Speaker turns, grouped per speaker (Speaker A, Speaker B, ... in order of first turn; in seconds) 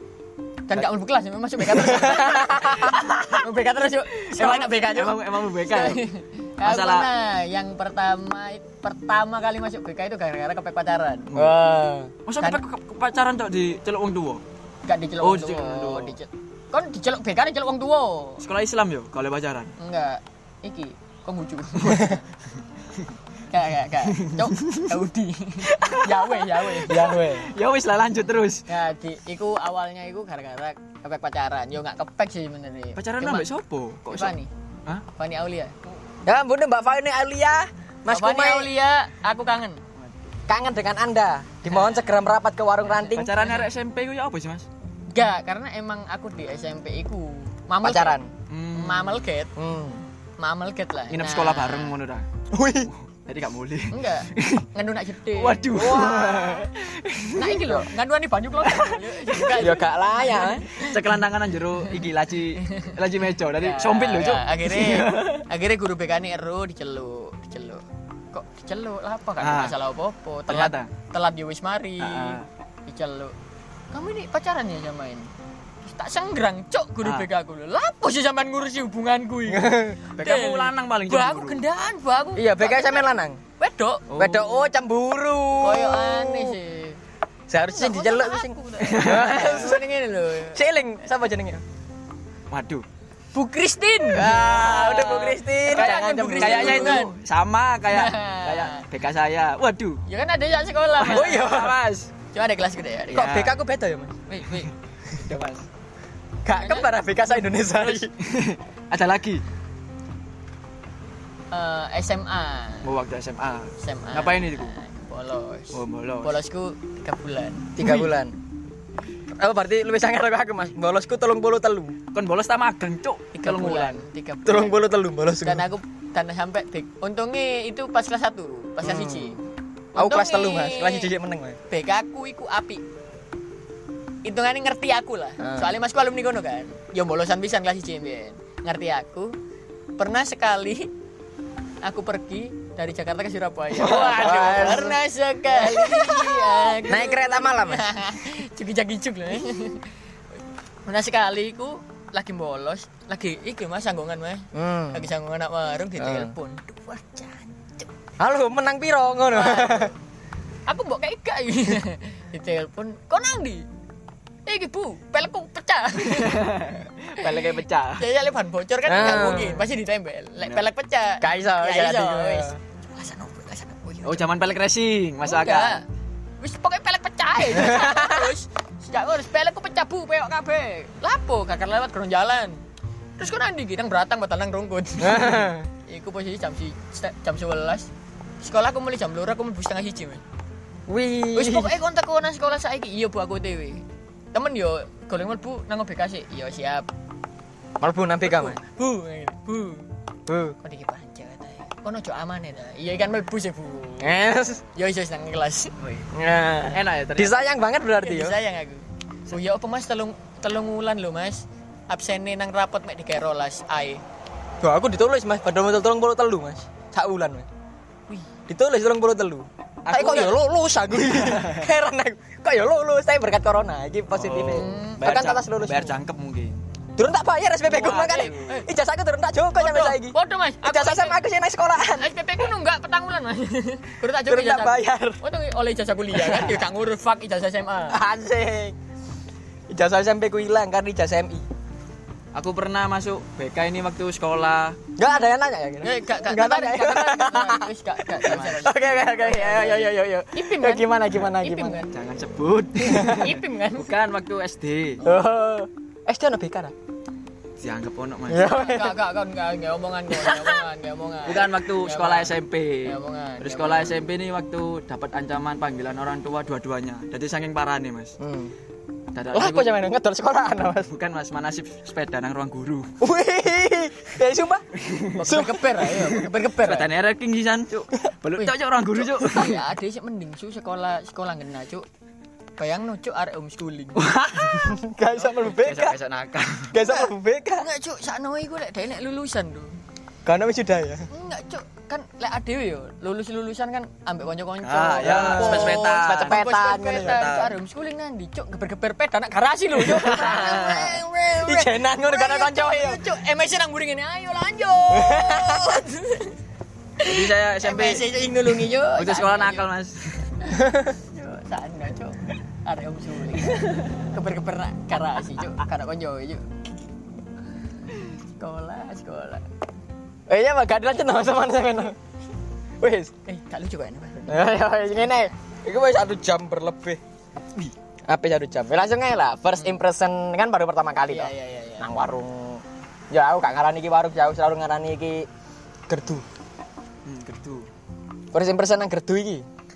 Speaker A: 0.7-11.3, 14.9-18.4, 19.8-22.2, 23.5-27.1, 28.7-33.5, 34.1-34.5, 35.1-35.7, 38.1-39.8, 43.1-43.6, 45.1-48.2, 48.7-49.5, 50.4-52.0, 53.9-56.4, 57.4-61.0, 62.6-63.0, 63.6-73.3, 73.9-75.3, 75.8-84.2, 85.6-87.0, 87.7-90.6, 93.3-97.2, 97.9-98.8, 100.1-101.7, 102.3-103.3, 104.3-104.7, 106.5-106.9, 111.5-112.9, 113.8-117.7, 123.3-124.8, 125.4-129.4, 129.9-131.1, 131.7-132.8, 134.2-139.3, 140.0-140.9, 141.8-149.9, 150.9-157.9, 159.3-159.9, 160.7-163.7, 164.5-166.6, 167.2-174.3, 175.2-175.9, 176.4-182.6, 183.2-187.9, 188.4-190.2, 191.3-196.9, 198.2-199.9, 200.6-204.2, 204.7-205.8, 207.8-214.0, 224.5-225.0, 227.7-228.7, 229.6-231.2, 231.8-238.0, 245.8-251.9, 252.8-253.9, 258.4-264.1, 275.2-276.9, 278.4-281.9, 282.6-284.0, 285.1-285.5, 286.8-289.8, 291.1-306.4, 307.0-309.7, 311.0-316.5, 318.1-319.4, 323.3-324.4, 331.1-331.9
Speaker B: 1.8-3.4, 4.1-6.0, 6.6-7.1, 12.3-14.4, 15.2-16.2, 18.4-19.7, 24.1-25.0, 25.6-28.7, 33.0-34.3, 43.1-44.7, 48.5-49.2, 51.1-52.3, 52.9-54.7, 55.3-57.8, 58.6-59.8, 60.8-65.5, 69.4-69.8, 70.5-70.9, 72.0-72.5, 77.0-77.3, 80.1-81.6, 84.1-84.6, 88.8-89.7, 92.5-92.8, 94.1-95.1, 95.7-100.0, 101.0-102.1, 103.2-103.5, 105.2-105.7, 107.8-109.4, 112.8-114.7, 115.7-116.4, 117.8-118.1, 122.1-124.0, 143.8-144.9, 166.0-168.1, 174.0-175.8, 206.7-207.4, 219.8-220.4, 221.0-221.6, 224.2-226.6, 228.0-228.4, 242.3-244.8, 248.3-248.7, 251.9-255.0, 257.6-258.5, 260.3-260.6, 261.2-268.2, 269.1-269.7, 270.9-272.9, 274.8-275.2, 276.5-279.6, 284.0-284.8, 285.6-286.7, 294.6-297.5, 300.1-300.9, 307.0-308.1, 309.0-310.3, 337.1-337.7
Speaker C: 2.0-3.0, 11.3-12.1, 26.9-27.5, 36.3-38.7, 40.5-43.3, 47.8-48.3, 49.6-50.0, 52.5-52.9, 55.7-56.7, 59.6-60.7, 79.5-80.0, 82.4-83.4, 84.2-86.6, 87.5-89.8, 90.5-91.6, 94.1-97.1, 101.1-101.8, 103.1-104.2, 106.4-108.1, 117.8-118.4, 119.3-122.0, 124.5-125.7, 128.8-129.4, 130.0-131.6, 135.4-135.8, 143.8-145.0, 145.5-146.2, 146.9-147.9, 154.5-155.1, 156.0-156.3, 158.2-159.9, 168.9-169.7, 171.2-172.6, 177.5-178.3, 185.0-185.7, 190.9-191.8, 197.8-198.6, 200.3-200.6, 204.0-204.6, 206.1-208.4, 214.6-217.5, 218.5-226.0, 227.0-232.2, 234.3-235.2, 237.9-238.8, 239.7-241.5, 245.0-251.9, 252.9-253.3, 255.0-256.7, 258.3-259.0, 268.2-268.6, 269.3-270.9, 273.0-274.7, 275.2-276.2, 284.6-286.0, 286.7-287.7, 290.2-291.1, 295.0-297.5, 299.8-303.0, 304.9-305.7, 310.6-310.9, 320.3-322.0, 322.8-323.1, 324.3-327.0, 328.1-335.3, 335.9-336.3, 338.3-339.5